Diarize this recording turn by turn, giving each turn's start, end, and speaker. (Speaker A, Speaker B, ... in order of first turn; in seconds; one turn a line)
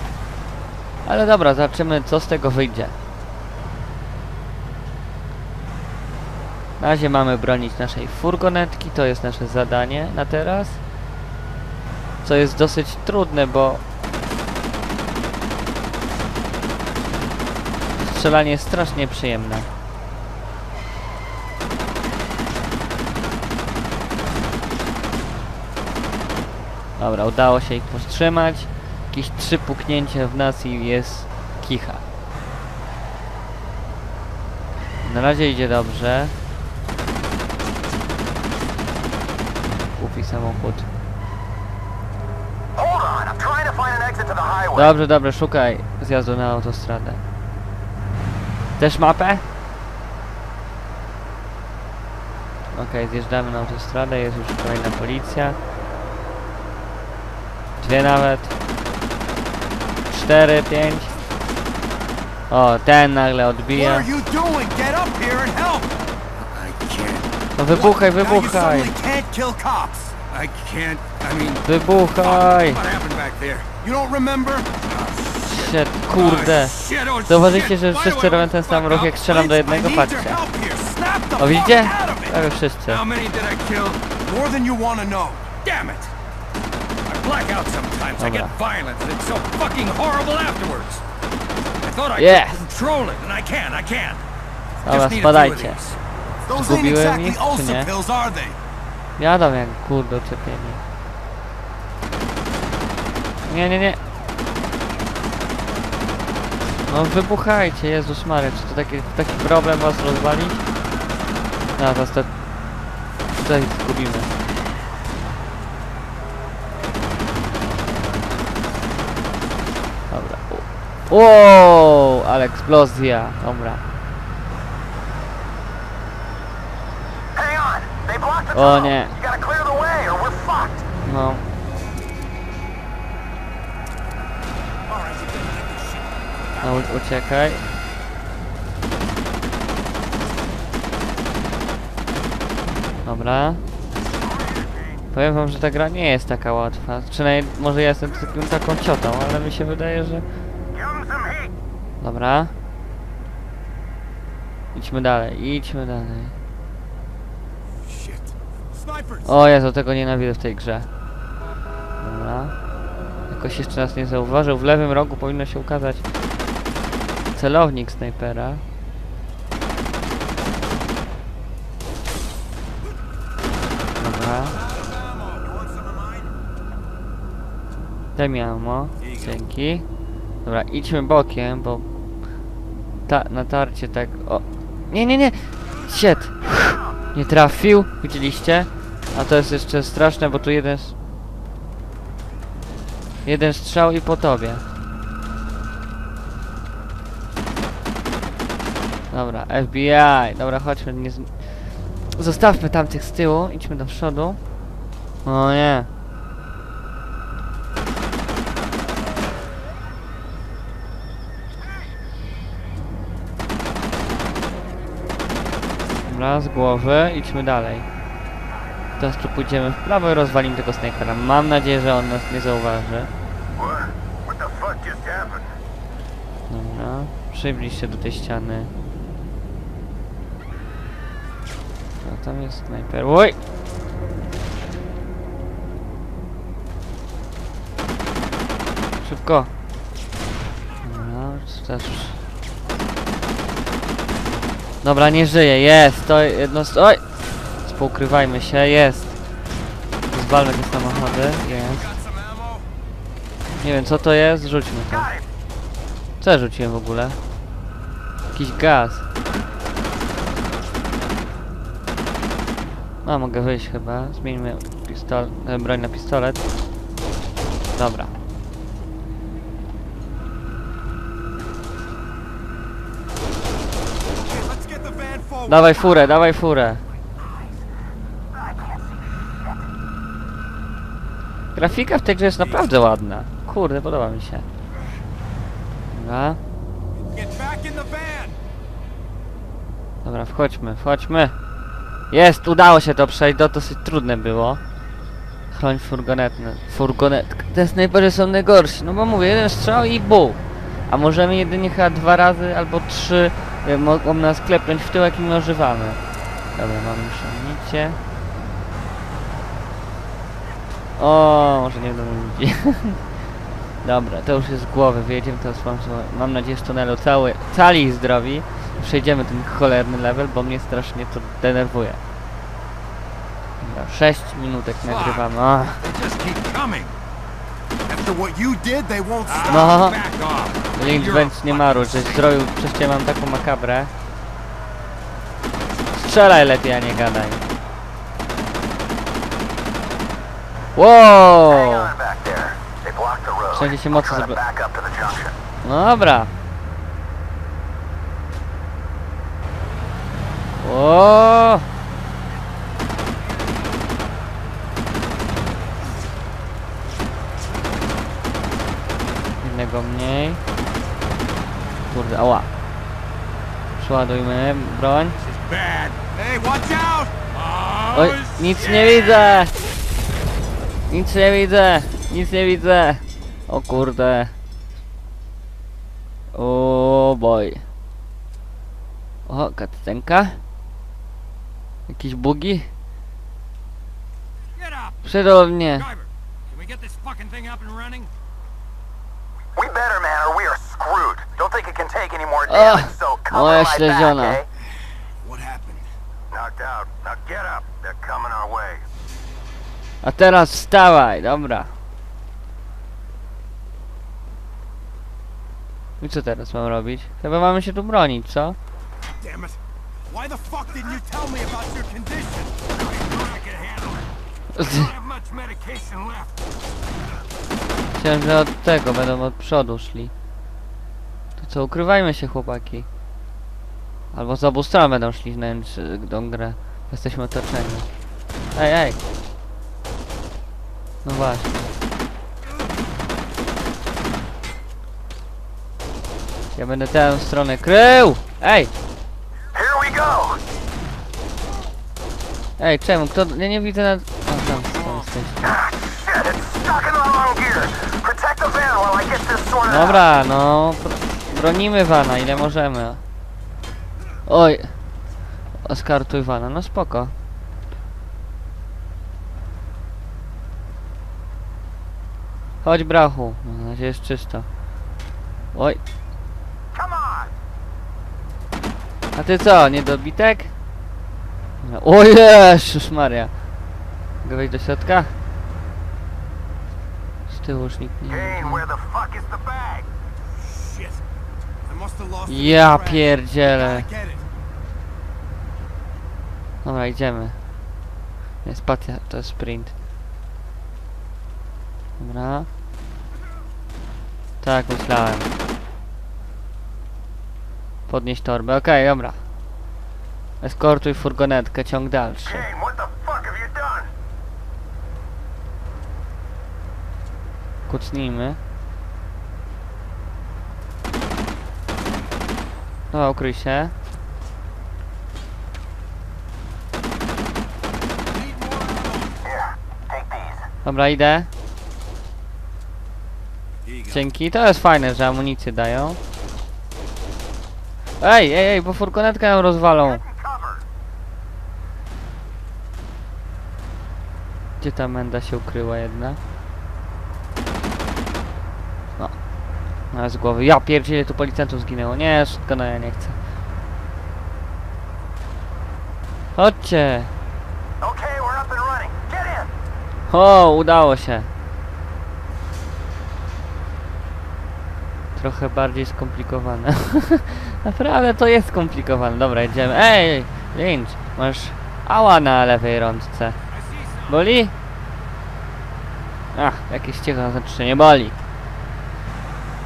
Speaker A: 1.0-2.9
Speaker A: 6.8-10.8
Speaker A: 12.2-13.8
Speaker A: 18.0-19.7
Speaker A: 27.0-32.0
Speaker A: 35.0-36.4
Speaker A: 40.0-40.9
Speaker B: 42.8-44.9
Speaker A: 44.7-47.2
Speaker A: 48.8-49.4
Speaker A: 52.7-55.6
Speaker A: 57.8-58.5
Speaker A: 60.1-61.1
Speaker A: 62.5-64.1
Speaker C: 63.7-65.9
Speaker D: 66.4-67.3
Speaker A: 67.5-68.9
Speaker C: 67.7-70.2
Speaker D: 70.3-71.6
Speaker A: 71.6-72.8
Speaker D: 72.2-73.7
Speaker C: 73.8-74.7
Speaker D: 74.8-79.1
Speaker A: 75.4-80.4
Speaker C: 79.1-82.4
Speaker A: 81.4-83.0
Speaker D: 82.9-84.1
Speaker C: 84.2-85.5
Speaker D: 85.6-86.1
Speaker D: 87.1-91.0
Speaker A: 88.2-88.5
Speaker D: 91.8-94.2
Speaker A: 92.2-92.6
Speaker D: 94.8-96.0
Speaker A: 94.8-95.8
Speaker C: 96.4-98.6
Speaker A: 96.5-97.9
Speaker A: 99.2-100.8
Speaker A: 103.5-104.0
Speaker A: 106.9-110.6
Speaker A: 111.8-112.3
Speaker A: 113.3-114.3
Speaker A: 120.1-123.8
Speaker B: 127.3-130.8
Speaker A: 128.5-129.2
Speaker A: 131.0-131.4
Speaker C: 135.0-135.9
Speaker A: 136.6-137.7
Speaker A: 143.0-143.6
Speaker A: 145.1-150.2
Speaker B: 150.8-151.5
Speaker A: 152.0-152.5
Speaker A: 154.7-156.3
Speaker C: 157.8-159.4
Speaker A: 159.2-160.9
Speaker A: 162.0-162.5
Speaker A: 163.3-166.0
Speaker A: 167.3-168.6
Speaker A: 174.0-174.6
Speaker C: 174.5-176.3
Speaker A: 178.2-179.8
Speaker A: 180.4-181.8
Speaker A: 183.1-190.9
Speaker A: 193.2-194.6
Speaker A: 199.1-204.4
Speaker A: 205.2-205.9
Speaker A: 216.0-217.9
Speaker A: 219.0-223.1
Speaker B: 223.6-225.5
Speaker A: 226.5-228.7
Speaker A: 232.0-233.4
Speaker A: 239.0-239.5
Speaker A: 240.8-242.2
Speaker A: 244.8-247.0
Speaker A: 247.6-249.2
Speaker A: 250.1-251.9
Speaker C: 250.7-252.7
Speaker A: 253.6-255.1
Speaker A: 256.2-257.2
Speaker A: 258.3-259.1
Speaker A: 263.0-266.4
Speaker A: 267.7-268.1
Speaker C: 274.1-275.8
Speaker A: 275.5-276.8
Speaker A: 281.5-284.5
Speaker A: 285.9-286.4
Speaker C: 287.1-288.4
Speaker A: 290.0-291.4
Speaker A: 292.1-294.6
Speaker A: 295.5-306.0
Speaker A: 306.6-308.0
Speaker A: 311.0-313.0
Speaker A: 313.8-322.0
Speaker A: 323.6-325.8
Speaker D: 324.8-325.3
Speaker D: 325.8-326.9
Speaker C: 327.9-329.8
Speaker D: 329.2-332.3
Speaker A: 329.5-330.0
Speaker A: 330.7-333.9
Speaker A: 335.9-337.4
Speaker A: 340.7-341.9
Speaker B: 341.5-345.3
Speaker A: 343.5-344.4
Speaker A: 345.6-346.3
Speaker A: 350.6-351.6
Speaker A: 359.4-360.4
Speaker A: 361.9-362.5
Speaker A: 363.8-365.2
Speaker D: 365.2-366.0
Speaker C: 366.1-367.1
Speaker D: 367.3-369.5
Speaker A: 367.9-369.5
Speaker A: 370.9-374.3
Speaker A: 376.3-377.6
Speaker A: 379.3-380.4
Speaker A: 381.9-382.7
Speaker D: 384.5-385.0
Speaker A: 385.0-385.9
Speaker D: 385.7-388.1
Speaker B: 389.6-394.4
Speaker A: 392.4-394.4
Speaker C: 395.2-395.9
Speaker B: 396.3-398.8
Speaker A: 400.0-401.7
Speaker A: 406.0-408.6
Speaker C: 409.2-409.6
Speaker C: 410.1-412.6
Speaker D: 412.7-416.3
Speaker A: 414.5-414.9
Speaker A: 417.9-420.1
Speaker A: 421.4-422.9
Speaker A: 424.1-427.9
Speaker A: 428.5-429.0
Speaker A: 431.0-431.5
Speaker A: 436.5-438.7
Speaker B: 439.5-440.4
Speaker A: 442.6-445.5
Speaker B: 445.5-450.0
Speaker A: 449.6-453.0
Speaker A: 454.3-454.7
Speaker A: 455.6-457.1
Speaker A: 462.6-464.5
Speaker A: 465.5-465.8
Speaker B: 466.7-467.3
Speaker A: 469.1-470.5
Speaker A: 471.6-473.3
Speaker A: 474.2-475.1
Speaker A: 477.3-478.7
Speaker B: 478.1-479.9
Speaker C: 480.4-481.0
Speaker C: 481.6-484.2
Speaker A: 482.3-483.9
Speaker A: 486.6-487.4
Speaker A: 488.4-489.7
Speaker A: 492.0-492.5
Speaker A: 494.4-495.3
Speaker A: 497.9-499.2
Speaker A: 500.4-502.5
Speaker B: 502.4-503.9
Speaker A: 507.7-508.4
Speaker A: 512.9-513.7
Speaker C: 518.1-519.2
Speaker B: 519.9-520.4
Speaker A: 520.6-521.3
Speaker C: 523.6-524.0
Speaker A: 523.9-526.0
Speaker A: 528.0-530.0
Speaker B: 530.0-530.6
Speaker A: 534.6-536.2
Speaker A: 539.9-543.2
Speaker A: 546.4-547.1
Speaker B: 547.8-549.5
Speaker A: 550.1-551.3
Speaker A: 555.1-563.4
Speaker D: 563.5-564.2
Speaker A: 564.1-564.5
Speaker A: 566.3-568.2